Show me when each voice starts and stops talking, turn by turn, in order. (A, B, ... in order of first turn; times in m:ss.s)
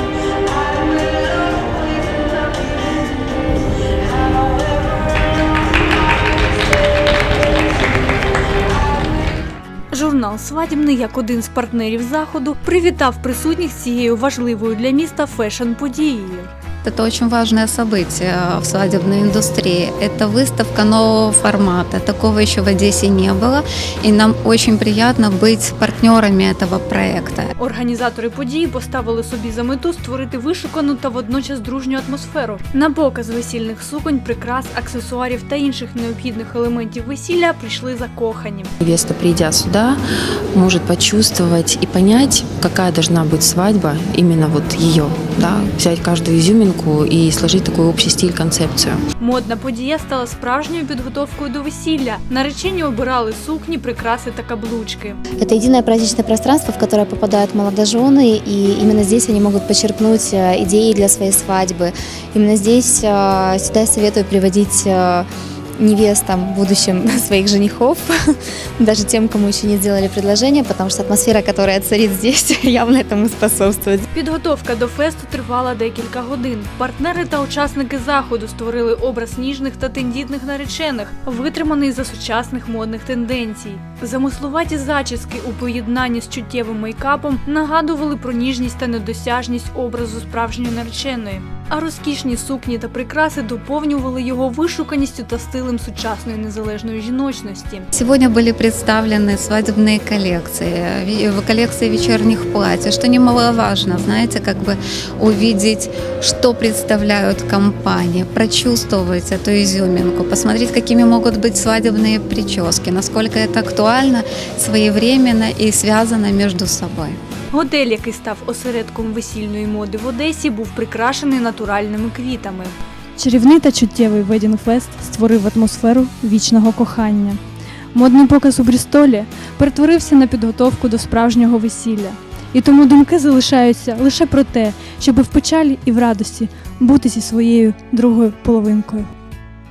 0:09.9-0:16.5 A
0:16.8-0:27.5 B
0:27.6-0:38.7 A
0:38.8-0:49.0 C
0:49.2-0:55.2 A
0:55.4-1:14.0 D
1:14.1-1:37.9 A
1:37.9-1:57.2 B
1:57.5-2:02.8 A
2:03.2-2:07.4 E
2:07.9-2:19.0 E